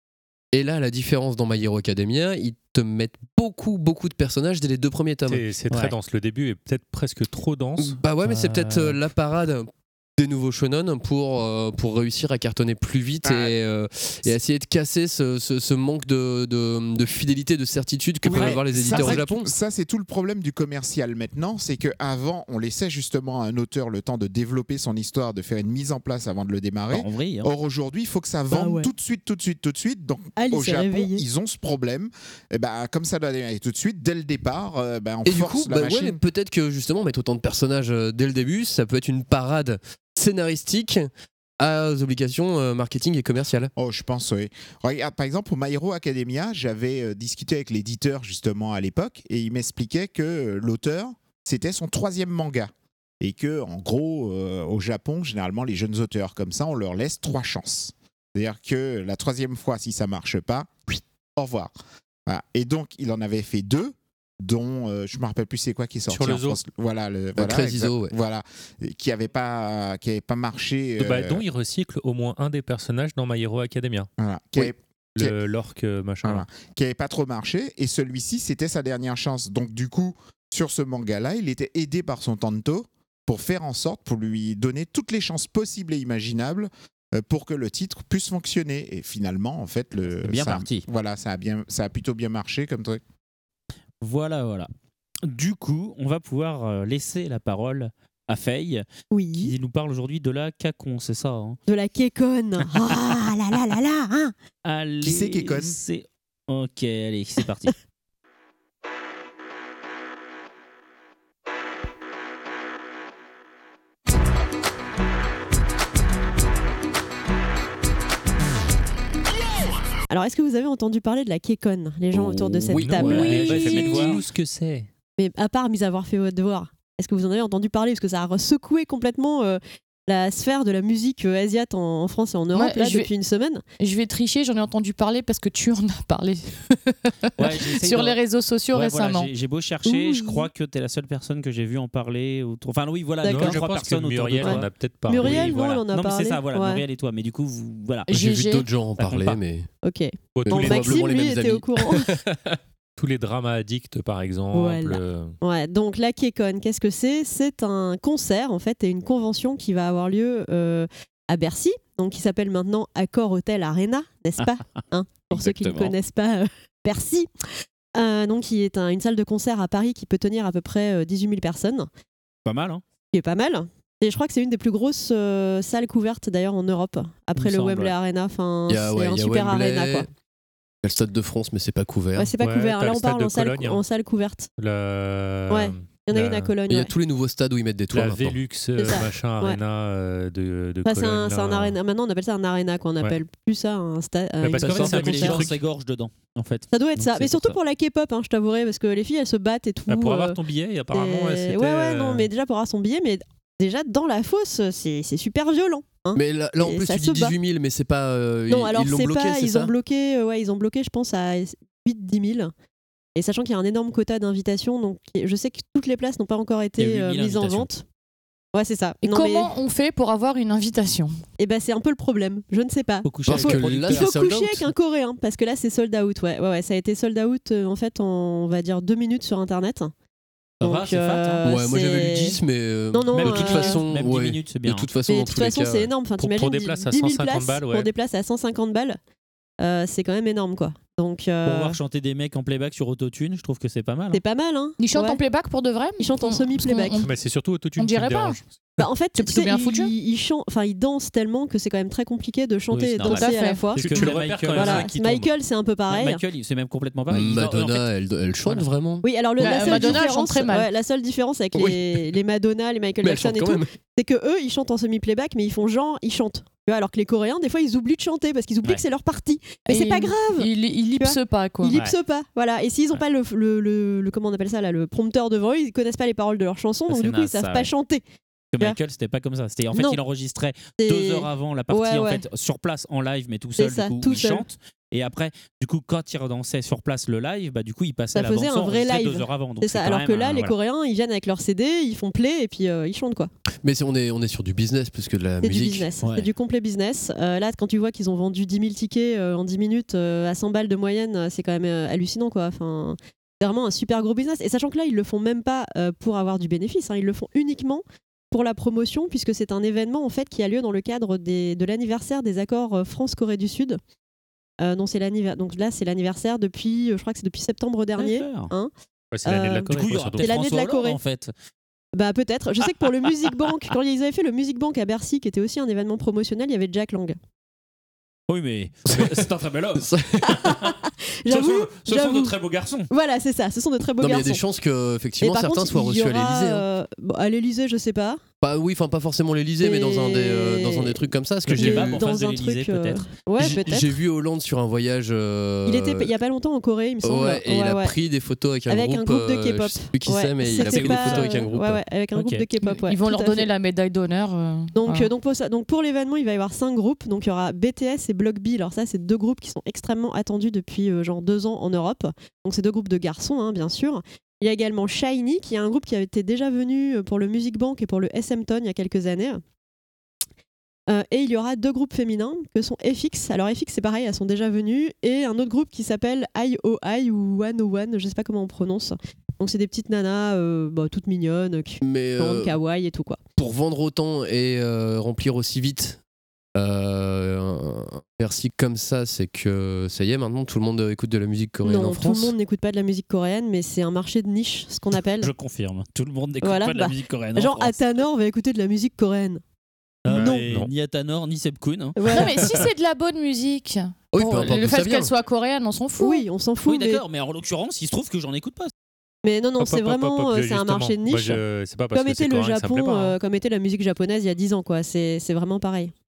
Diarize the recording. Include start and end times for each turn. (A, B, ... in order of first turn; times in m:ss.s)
0:00.5-0:05.4 A
0:05.3-0:08.0 B
0:07.8-0:19.5 A
0:08.2-0:08.9 C
0:13.2-0:13.5 D
0:18.2-0:36.2 D
0:18.3-0:19.2 C
0:26.9-0:27.5 C
0:28.5-0:28.9 E
0:30.4-0:31.2 E
0:35.2-0:43.7 A
0:43.8-1:01.7 D
1:02.3-1:11.4 D
1:06.1-1:06.6 B
1:07.4-1:08.1 A
1:11.0-1:14.1 B
1:14.2-1:15.3 D
1:15.2-1:16.4 B
1:16.2-1:33.0 D
1:30.2-1:30.8 C
1:34.0-1:34.7 C
1:35.2-1:38.8 C
1:39.1-1:39.5 E
1:39.4-1:41.6 C
1:41.7-1:44.3 E
1:42.7-1:43.0 C
1:44.6-1:47.7 C
1:45.0-1:45.8 D
2:00.1-2:03.7 E
2:02.2-2:03.0 A
2:02.7-2:04.9 B
2:03.0-2:04.2 C
2:03.1-2:04.2 F
2:05.2-2:13.6 E
2:12.5-2:13.1 F
2:13.8-2:19.3 F
2:17.4-2:18.2 C
2:18.7-2:28.1 C
2:19.9-2:20.5 E
2:23.2-2:23.6 E
2:23.2-2:25.5 B
2:24.4-2:26.8 E
2:28.1-2:28.7 F
2:28.1-2:29.7 A
2:29.0-2:29.4 C
2:29.8-2:32.1 E
2:30.3-2:31.0 B
2:30.5-2:32.2 A
2:33.0-2:35.4 B
2:34.5-2:47.3 E
2:44.4-2:44.8 C
2:45.4-2:45.9 A
2:47.9-2:51.9 E
2:52.4-2:52.8 C
2:53.1-3:00.1 E
2:57.3-2:57.9 C
2:58.7-3:00.1 A
3:00.8-3:02.3 A
3:02.1-3:04.5 E
3:02.4-3:03.8 B
3:04.6-3:06.5 B
3:05.5-3:06.9 E
3:06.7-3:08.4 A
3:07.9-3:11.8 B
3:08.8-3:09.6 E
3:10.8-3:15.5 E
3:14.4-3:15.6 B
3:14.5-3:17.6 C
3:16.7-3:20.4 E
3:19.9-3:22.3 B
3:20.9-3:27.3 E
3:26.1-3:29.7 A
3:28.5-3:32.5 E
3:33.2-3:37.8 E
3:36.8-3:37.7 C
3:38.5-3:39.5 E
3:39.0-3:41.2 F
3:41.4-3:49.9 E
3:43.0-3:44.1 C
3:43.3-3:44.7 A
3:50.6-3:51.4 C
3:50.6-3:52.4 E
3:51.4-3:55.9 A
3:52.9-3:53.8 E
3:53.1-3:54.9 C
3:55.1-3:59.0 E
3:56.2-3:57.9 B
3:59.6-4:01.8 E
4:01.4-4:04.2 C
4:04.1-4:05.2 E
4:04.8-4:07.1 F
4:06.0-4:07.0 E
4:07.0-4:08.4 B
4:07.8-4:08.4 F
4:08.8-4:16.2 E
4:09.1-4:09.9 F
4:12.7-4:14.9 C
4:13.0-4:13.7 F
4:13.7-4:15.3 B
4:15.9-4:17.9 C
4:17.1-4:20.0 A
4:19.0-4:38.0 E
4:19.4-4:20.7 F
4:21.5-4:22.1 A
4:23.0-4:23.7 A
4:29.6-4:31.8 F
4:36.9-4:37.7 C
4:38.5-4:50.6 C
4:39.7-4:40.0 E
4:40.8-4:42.2 E
4:43.6-4:44.4 E
4:48.1-4:53.3 E
4:53.6-4:55.9 A
4:55.4-5:13.8 E
4:56.0-4:56.3 C
5:14.6-5:18.7 E
5:18.0-5:18.5 C
5:19.1-5:20.3 B
5:19.2-5:21.0 E
5:19.7-5:21.3 C
5:21.9-5:27.2 E
5:28.3-5:30.8 C
5:28.9-5:30.5 A
5:30.8-5:32.3 E
5:31.3-5:32.9 C
5:32.9-5:34.4 E
5:34.0-5:36.6 A
5:35.2-5:38.2 E
5:38.4-5:42.0 A
5:39.6-5:41.0 E
5:41.4-5:43.1 C
5:41.5-5:43.9 E
5:43.4-5:46.1 A
5:45.6-5:47.9 E
5:47.0-5:51.8 A
5:48.7-5:53.5 E
5:50.6-5:51.4 C
5:52.1-5:52.4 C
5:52.6-5:55.1 F
5:54.7-6:09.4 E
6:10.9-6:23.2 E
6:21.8-6:22.5 A
6:23.4-6:26.0 A
6:26.6-6:32.3 A
6:31.6-6:35.3 E
6:35.2-6:37.8 C
6:36.4-6:39.4 E
6:40.0-6:42.0 C
6:40.1-6:40.7 B
6:40.1-6:40.4 E
6:42.0-6:42.5 E
6:42.1-6:46.2 F
6:44.1-6:45.1 A
6:46.0-6:47.0 E
6:46.6-6:48.7 C
6:49.2-6:51.4 E
6:49.6-6:53.2 B
6:51.9-6:55.9 E